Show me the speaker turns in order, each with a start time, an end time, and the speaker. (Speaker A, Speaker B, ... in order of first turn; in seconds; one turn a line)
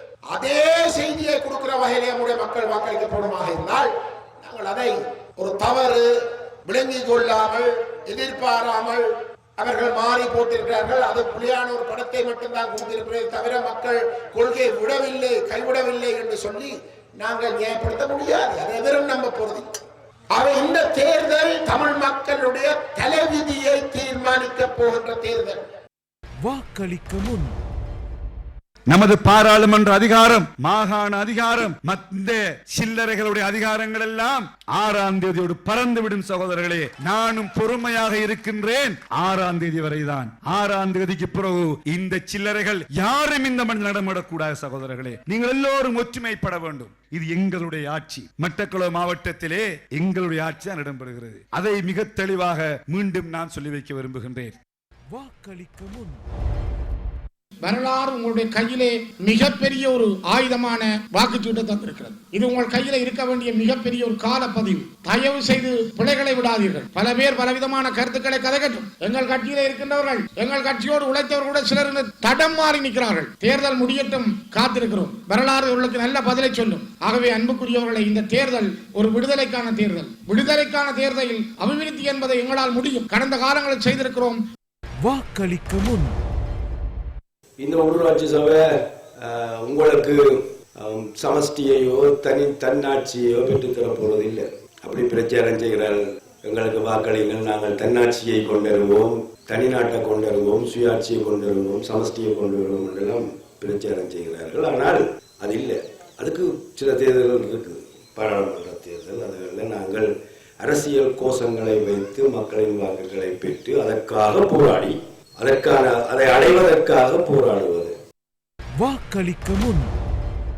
Speaker A: 0.3-3.9
Speaker A: 4.4-6.1
Speaker A: 6.7-9.0
Speaker A: 9.6-19.6
Speaker A: 20.3-25.6
Speaker B: 26.4-27.6
Speaker C: 28.9-54.6
Speaker B: 55.1-56.2
Speaker D: 57.6-84.4
Speaker B: 85.0-86.2
Speaker E: 87.6-88.7
Speaker E: 89.2-110.1
Speaker E: 110.6-118.0
Speaker B: 118.8-119.9